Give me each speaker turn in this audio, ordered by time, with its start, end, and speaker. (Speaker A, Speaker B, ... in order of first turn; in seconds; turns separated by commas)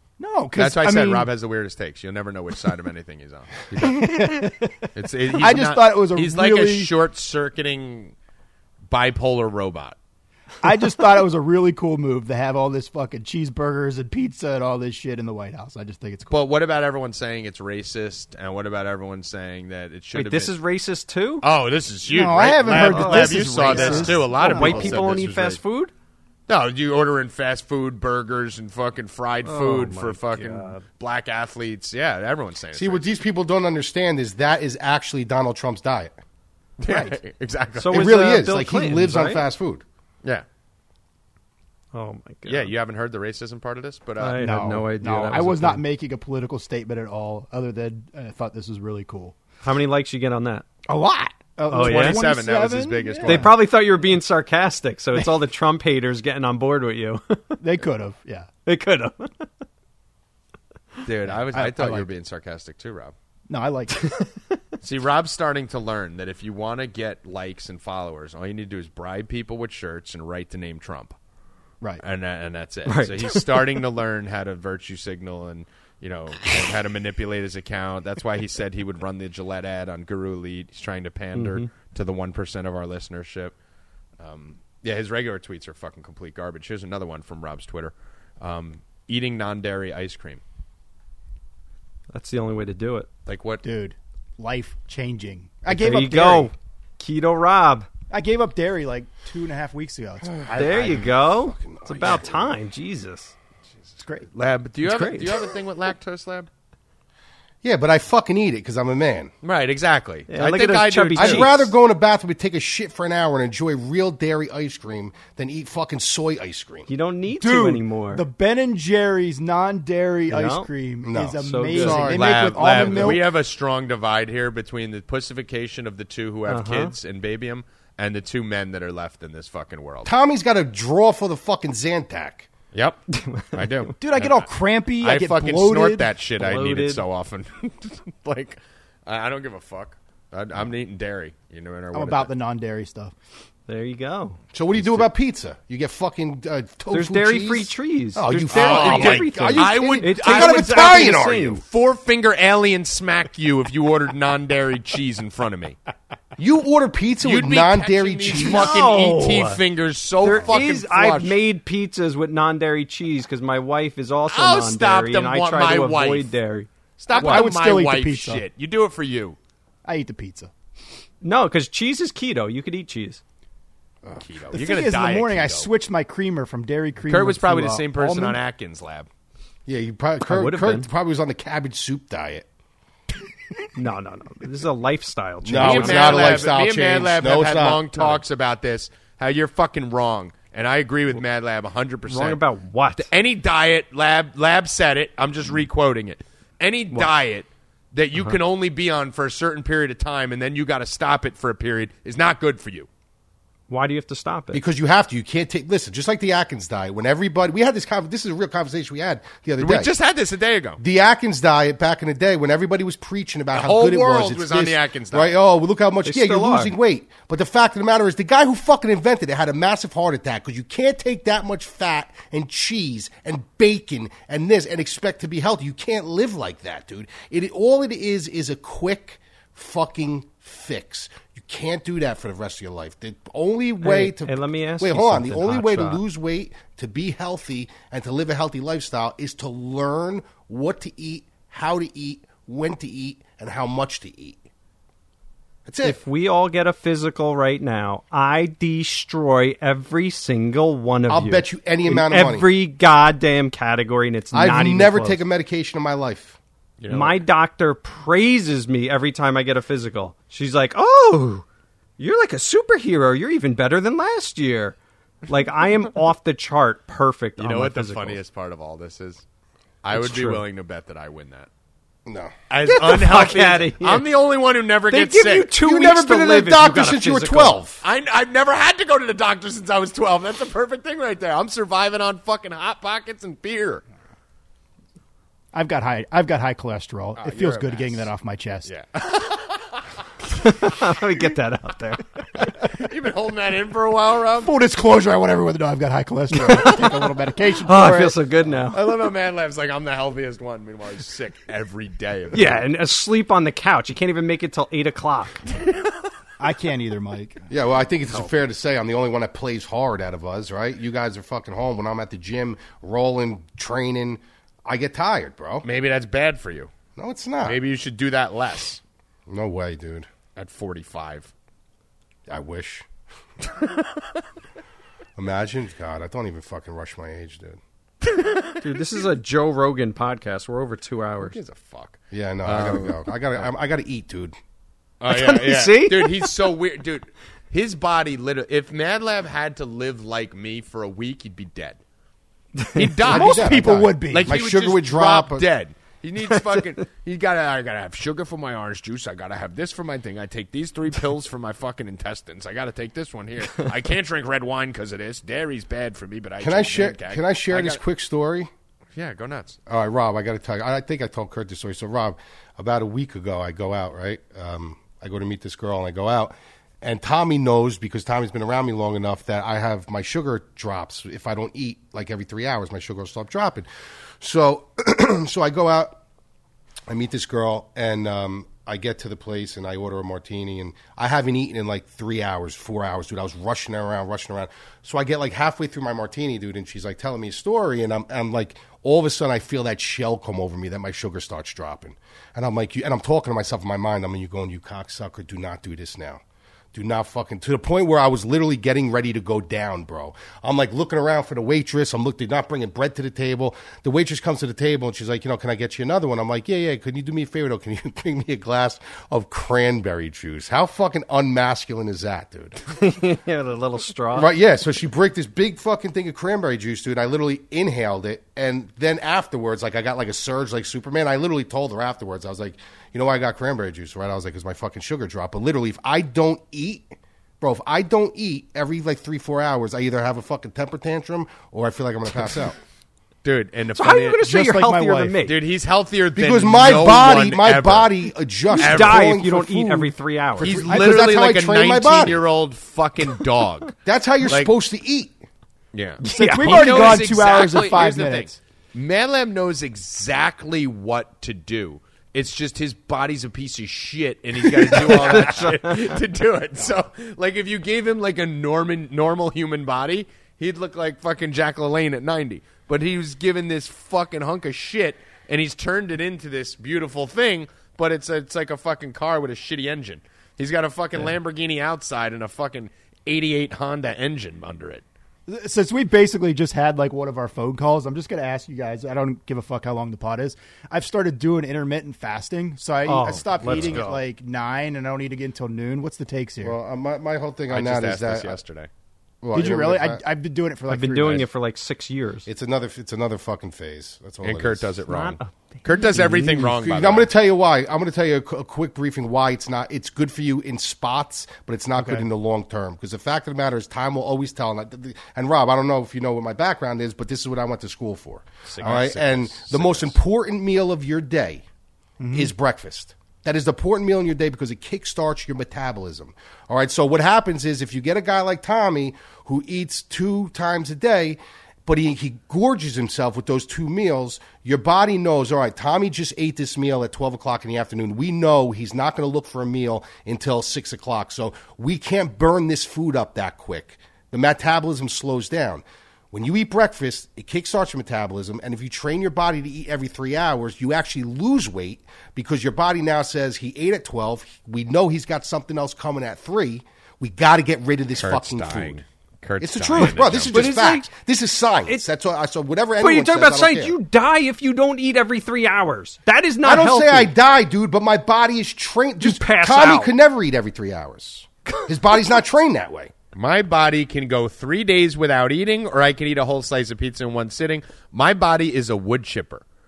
Speaker A: 0.2-1.3, Speaker B: 0.6-4.4, Speaker A: 3.7-6.9, Speaker B: 4.9-8.1, Speaker B: 8.9-10.0, Speaker A: 10.6-16.3, Speaker B: 16.3-20.6, Speaker C: 20.1-21.4, Speaker B: 21.4-25.6, Speaker A: 22.1-25.1, Speaker C: 22.7-25.9, Speaker B: 26.5-33.2, Speaker C: 29.4-30.8, Speaker D: 32.7-36.2, Speaker B: 36.8-38.0, Speaker A: 36.9-37.1, Speaker C: 37.8-39.5, Speaker D: 37.9-39.8, Speaker C: 41.9-42.7, Speaker B: 42.5-44.5, Speaker C: 44.2-45.8, Speaker A: 44.3-49.4, Speaker C: 49.6-50.6, Speaker A: 50.9-53.5, Speaker B: 51.7-53.5, Speaker C: 51.7-52.2, Speaker C: 53.2-57.8, Speaker A: 57.6-58.5, Speaker C: 58.6-59.5, Speaker B: 61.0-63.1, Speaker A: 61.3-62.1, Speaker A: 63.5-64.1, Speaker B: 64.8-71.1, Speaker B: 72.0-83.5, Speaker C: 72.9-73.7, Speaker C: 81.3-81.7, Speaker B: 84.2-90.4, Speaker C: 92.1-93.1, Speaker B: 93.2-93.6, Speaker A: 93.6-96.5, Speaker C: 95.7-97.9, Speaker A: 98.1-101.1, Speaker D: 100.4-102.5, Speaker C: 100.5-103.3, Speaker A: 104.0-104.3, Speaker B: 104.3-106.5, Speaker C: 104.8-105.4, Speaker D: 107.6-109.3, Speaker B: 109.4-111.7, Speaker C: 110.3-111.5, Speaker D: 111.1-116.9, Speaker C: 116.9-118.2, Speaker A: 117.3-123.2, Speaker C: 120.3-120.7, Speaker D: 121.0-122.2, Speaker C: 121.4-123.2, Speaker B: 121.7-130.1, Speaker C: 126.5-126.9, Speaker D: 130.0-132.5, Speaker B: 132.7-133.0, Speaker C: 133.1-133.7, Speaker B: 133.5-134.4, Speaker A: 134.0-136.1, Speaker B: 135.0-142.3, Speaker C: 136.4-137.0, Speaker A: 141.9-143.1, Speaker C: 143.7-144.4, Speaker D: 144.5-151.6, Speaker C: 146.9-151.6, Speaker B: 148.5-155.8, Speaker D: 156.4-158.8, Speaker B: 157.2-161.3, Speaker C: 158.3-159.6, Speaker C: 160.2-166.7, Speaker B: 164.3-166.3, Speaker B: 167.0-169.4, Speaker A: 167.1-168.4, Speaker A: 169.8-170.5, Speaker C: 171.2-173.2, Speaker D: 174.0-174.4, Speaker B: 174.2-175.7, Speaker A: 174.5-178.4, Speaker B: 177.1-179.1, Speaker D: 179.7-182.5, Speaker C: 180.2-180.9, Speaker C: 183.7-186.5, Speaker D: 185.4-188.1, Speaker B: 185.6-192.4, Speaker C: 192.1-193.1, Speaker B: 192.9-202.9, Speaker C: 203.7-204.6, Speaker D: 204.5-209.9, Speaker B: 209.6-210.8, Speaker D: 210.8-244.4, Speaker B: 213.5-215.3, Speaker C: 216.0-216.7, Speaker C: 233.8-236.0, Speaker D: 245.7-246.0, Speaker C: 245.8-255.2, Speaker D: 251.1-252.4, Speaker D: 254.3-256.4, Speaker B: 256.8-257.2, Speaker C: 256.9-261.4, Speaker C: 262.0-264.8, Speaker C: 265.3-268.2, Speaker B: 267.4-269.2, Speaker B: 269.8-271.5, Speaker C: 269.9-270.4, Speaker D: 272.1-272.3, Speaker B: 272.5-275.5, Speaker C: 272.6-274.1, Speaker C: 274.9-277.6, Speaker D: 275.6-277.8, Speaker B: 277.8-283.8, Speaker A: 285.5-288.7, Speaker B: 287.2-288.1, Speaker B: 288.6-289.9, Speaker C: 290.4-292.5, Speaker B: 292.7-294.5, Speaker A: 294.4-298.2, Speaker C: 296.3-297.1, Speaker C: 297.6-298.8, Speaker B: 298.7-302.6, Speaker C: 302.3-305.5, Speaker A: 306.4-307.4, Speaker D: 307.5-315.7, Speaker B: 315.6-316.7, Speaker D: 316.9-317.6, Speaker B: 317.4-318.8, Speaker D: 319.3-320.1, Speaker B: 320.4-321.3, Speaker D: 322.3-322.9, Speaker D: 325.1-327.6, Speaker B: 328.2-328.6, Speaker C: 328.6-331.4, Speaker B: 331.2-333.5, Speaker D: 332.1-334.3, Speaker B: 335.0-341.8, Speaker C: 335.1-336.3, Speaker C: 342.6-342.9, Speaker B: 342.7-357.8, Speaker D: 343.0-345.4, Speaker A: 343.1-344.4, Speaker D: 356.4-358.5, Speaker B: 358.9-359.6, Speaker D: 359.7-373.7, Speaker D: 374.2-376.0, Speaker D: 376.9-396.2, Speaker D: 396.7-412.6, Speaker C: 412.8-414.3, Speaker D: 414.1-432.6, Speaker B: 433.2-434.2, Speaker C: 433.8-435.4, Speaker A: 434.2-435.2, Speaker B: 435.2-437.9, Speaker D: 436.1-442.2, Speaker C: 438.5-440.6, Speaker B: 438.6-439.0, Speaker B: 440.4-443.7, Speaker D: 443.8-445.2, Speaker B: 444.2-444.5, Speaker B: 445.7-474.8, Speaker C: 446.0-447.0, Speaker A: 446.1-448.4, Speaker C: 454.7-456.0, Speaker A: 475.3-486.6, Speaker C: 482.9-483.8, Speaker B: 483.1-484.0, Speaker D: 486.4-488.4, Speaker B: 487.5-488.7, Speaker D: 489.2-490.0, Speaker A: 489.3-491.3, Speaker C: 490.7-492.3, Speaker D: 492.2-494.7, Speaker B: 494.2-497.1, Speaker C: 494.9-496.4, Speaker D: 496.2-511.4, Speaker A: 501.8-502.0, Speaker B: 508.4-510.0, Speaker A: 512.0-512.3, Speaker D: 512.1-548.8, Speaker B: 548.0-550.5, Speaker D: 549.4-553.7, Speaker C: 550.3-550.9, Speaker C: 552.8-557.1, Speaker D: 556.4-562.9, Speaker C: 559.0-559.9, Speaker B: 563.1-569.4